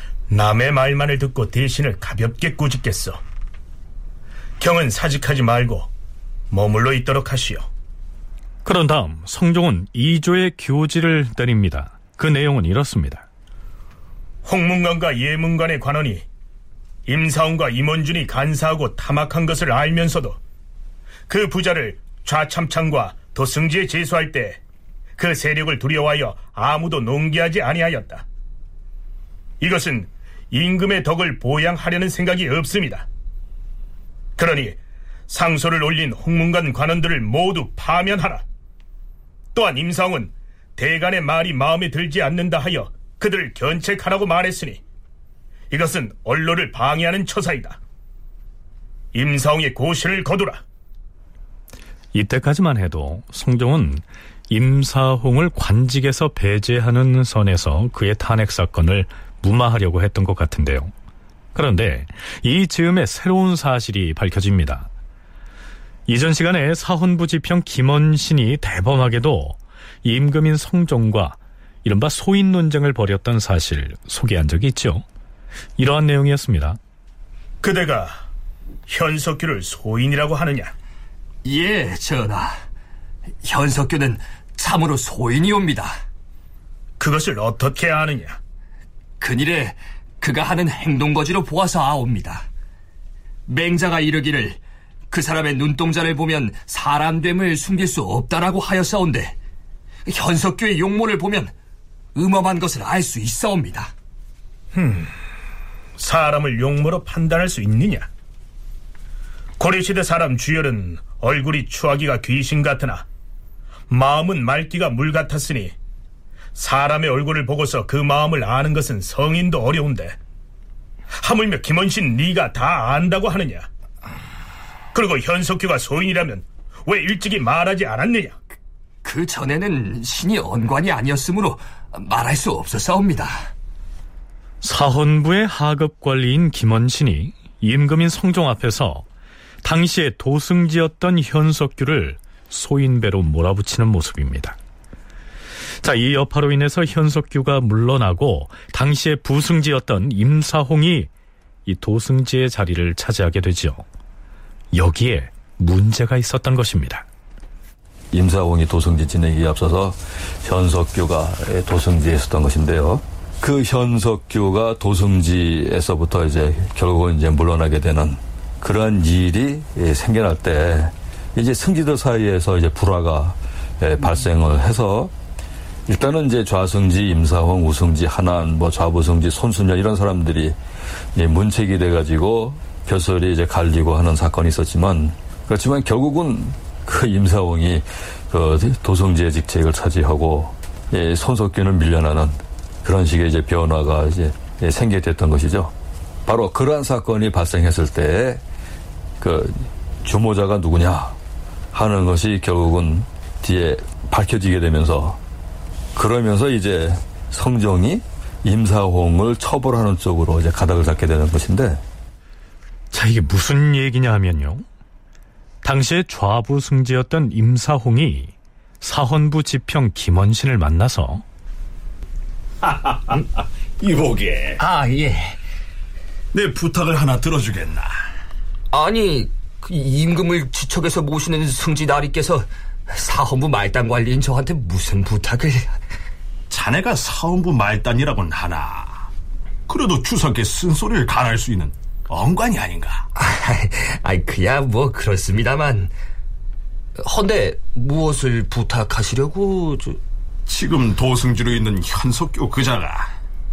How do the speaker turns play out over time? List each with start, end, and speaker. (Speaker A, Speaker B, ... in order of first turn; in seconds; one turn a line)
Speaker A: 0.3-3.2
Speaker A: 4.6-5.9
Speaker A: 6.5-7.7
Speaker B: 8.6-13.2
Speaker A: 14.4-16.2
Speaker A: 17.1-20.4
Speaker A: 21.3-24.6
Speaker A: 25.2-28.2
Speaker A: 29.6-33.0
Speaker A: 34.4-34.8
Speaker A: 35.3-38.4
Speaker A: 39.5-44.8
Speaker A: 45.7-47.8
Speaker A: 49.1-50.6
Speaker B: 52.1-60.9
Speaker B: 61.5-64.9
Speaker B: 66.1-75.0
Speaker B: 75.8-76.8
Speaker A: 77.6-78.2
Speaker A: 78.9-80.7
Speaker C: 81.4-82.6
Speaker C: 83.4-86.0
Speaker A: 87.0-88.4
Speaker C: 89.2-92.5
Speaker C: 93.5-94.6
Speaker C: 95.1-99.3
Speaker C: 100.0-101.5
Speaker C: 102.1-103.9
Speaker A: 104.7-105.1
Speaker A: 106.0-108.1
Speaker A: 109.6-113.0
Speaker A: 113.9-115.7
Speaker A: 116.5-120.2
Speaker A: 121.2-123.7
Speaker A: 124.9-128.4
Speaker C: 129.0-133.5
Speaker B: 134.6-139.1
Speaker B: 139.6-144.6
Speaker B: 145.8-151.1
Speaker B: 151.7-153.8
Speaker B: 154.7-157.0
Speaker D: 158.1-175.1
Speaker D: 175.9-180.6
Speaker D: 181.1-195.7
Speaker D: 196.2-198.4
Speaker D: 199.2-201.2
Speaker D: 201.7-205.2
Speaker D: 205.9-211.8
Speaker B: 212.9-214.6
Speaker B: 215.6-221.2
Speaker E: 222.6-223.2
Speaker E: 223.8-224.6
Speaker C: 224.6-225.4
Speaker E: 226.3-228.0
Speaker C: 228.7-235.8
Speaker E: 236.5-239.1
Speaker E: 239.7-243.1
Speaker C: 243.2-245.9
Speaker C: 247.0-250.0
Speaker E: 250.5-253.1